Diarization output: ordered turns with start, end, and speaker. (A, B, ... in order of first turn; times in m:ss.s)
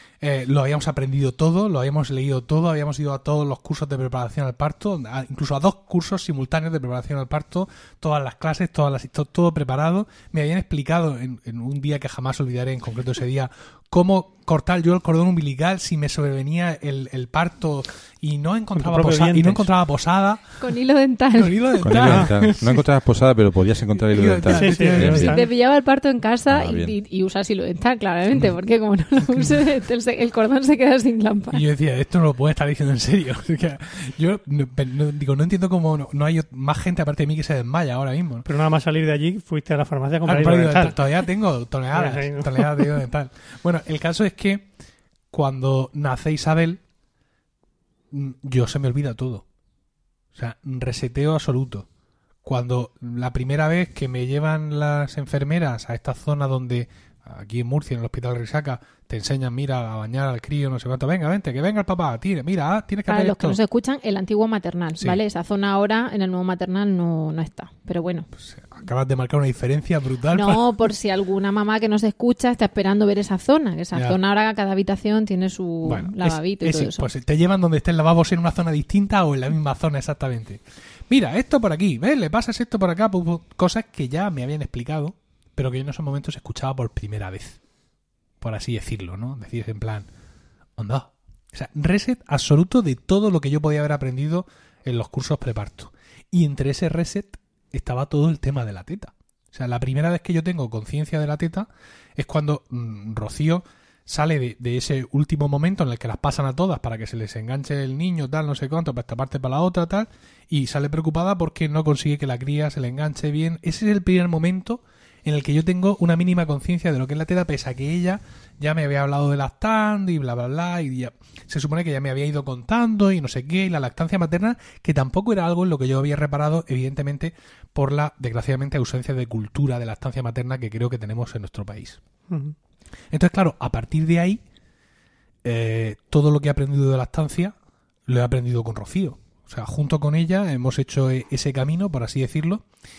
0:00.2-0:20.6 A
0:18.7-0:19.7 B
0:20.6-0:21.5 C
0:21.3-0:22.8 A
0:21.8-0:25.3 D
0:22.0-0:22.3 B
0:23.9-0:25.4 A
0:24.5-0:25.4 B
0:25.2-0:31.6 C
0:26.5-0:26.9 D
0:31.5-0:38.5 A
0:38.4-0:41.0 B
0:40.2-0:44.7 A
0:41.9-0:42.9 B
0:45.3-0:46.8 A
0:48.1-0:49.4 A
0:50.3-0:51.8 A
0:52.4-1:03.6 A
1:03.1-1:08.3 C
1:08.4-1:10.6 A
1:10.3-1:17.1 C
1:13.9-1:14.2 A
1:15.8-1:27.6 A
1:28.4-1:30.1 A
1:30.8-2:12.0 A
2:12.3-2:12.5 B
2:13.1-2:14.4 A
2:15.4-2:17.5 A
2:18.1-2:22.6 A